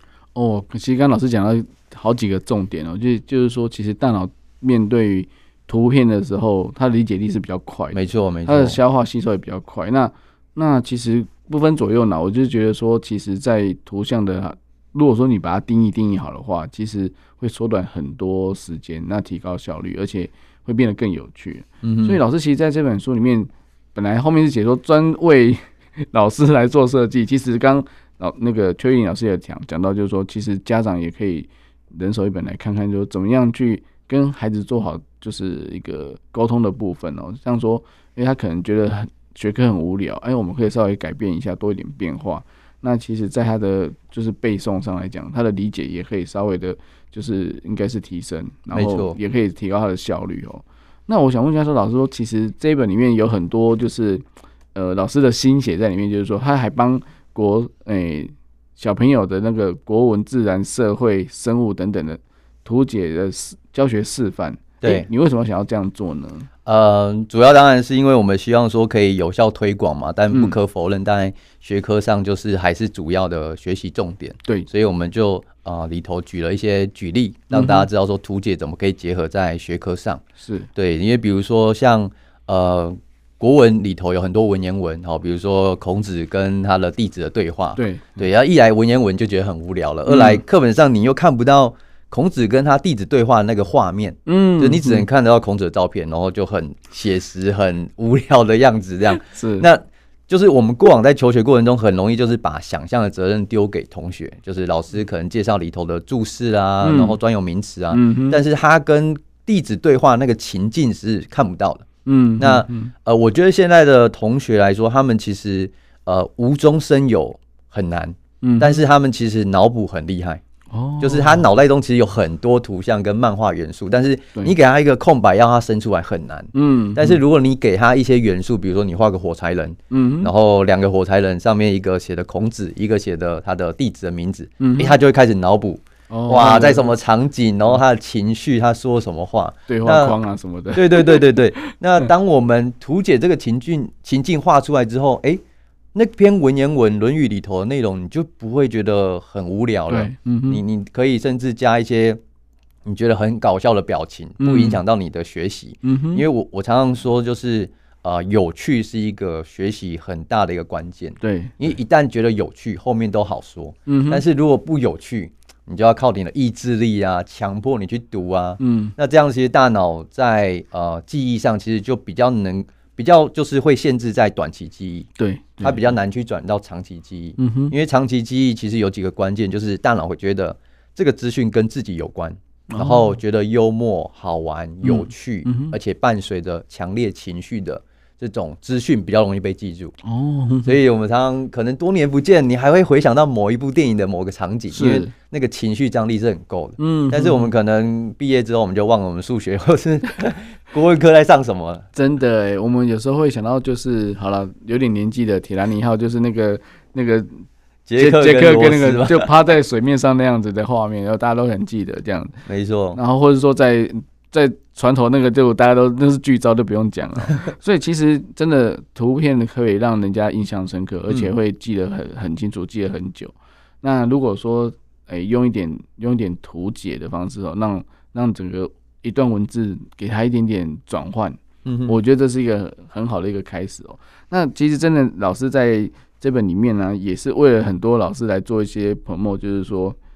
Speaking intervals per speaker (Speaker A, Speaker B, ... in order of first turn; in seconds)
Speaker A: 0.3-66.5, 70.3-70.6, 77.5-77.9, 80.4-80.7, 87.8-88.2, 90.1-90.4, 94.3-95.1, 99.1-99.7, 106.8-107.2, 107.9-108.4, 112.0-112.9, 118.4-118.8, 120.7-121.5, 126.5-127.2, 129.9-130.3, 134.6-135.0, 136.1-137.0, 139.7-141.4, 149.9-150.6, 154.4-154.8, 155.8-156.3, 161.2-161.7, 163.9-164.2, 168.6-168.9, 175.2-175.9, 177.4-177.7, 182.7-183.2, 184.8-185.8, 190.0-190.8, 194.7-195.1, 196.8-197.5, 201.9-207.4, 208.0-212.3, 212.9-240.0
Speaker B: 7.9-8.8, 21.8-22.2, 48.7-49.2, 64.8-65.1, 66.6-80.2, 80.8-120.4, 121.0-140.2, 140.7-145.4, 145.9-152.2, 152.8-175.1, 175.6-189.9, 190.6-201.9, 207.9-209.3, 212.5-213.0, 231.6-232.0